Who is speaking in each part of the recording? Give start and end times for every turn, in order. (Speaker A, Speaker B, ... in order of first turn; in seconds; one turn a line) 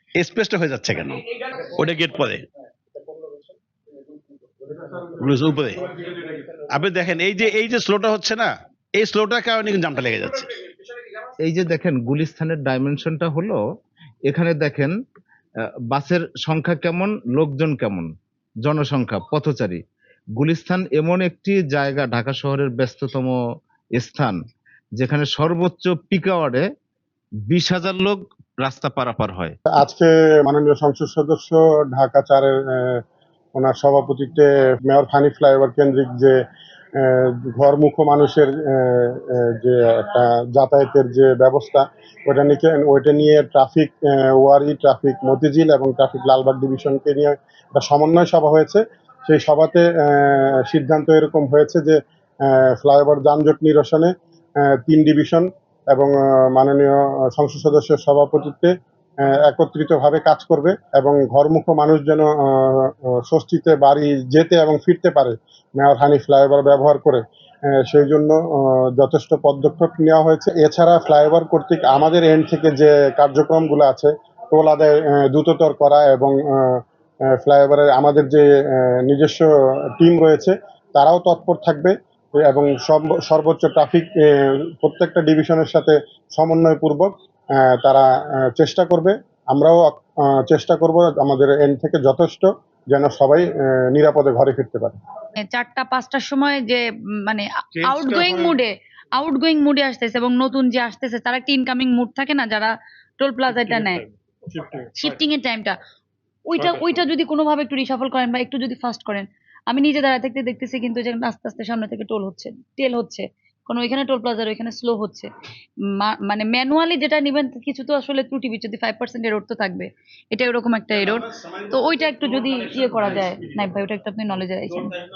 Speaker A: 0.2-2.5
Speaker A: 5.2-5.9
Speaker A: 6.7-10.5
Speaker B: 11.4-13.6
Speaker B: 14.3-14.9
Speaker B: 15.9-18.1
Speaker B: 18.6-19.8
Speaker B: 20.4-23.4
Speaker B: 24.0-24.4
Speaker B: 25.0-26.7
Speaker B: 27.5-29.6
Speaker C: 29.7-33.0
Speaker C: 33.5-36.4
Speaker C: 37.0-58.7
Speaker C: 59.2-76.8
Speaker C: 77.4-78.4
Speaker C: 79.0-79.5
Speaker C: 80.0-84.1
Speaker C: 84.8-88.0
Speaker C: 88.5-94.9
Speaker D: 95.5-104.0
Speaker C: 104.5-104.8
Speaker D: 105.0-105.8
Speaker D: 106.5-115.3
Speaker D: 116.0-124.9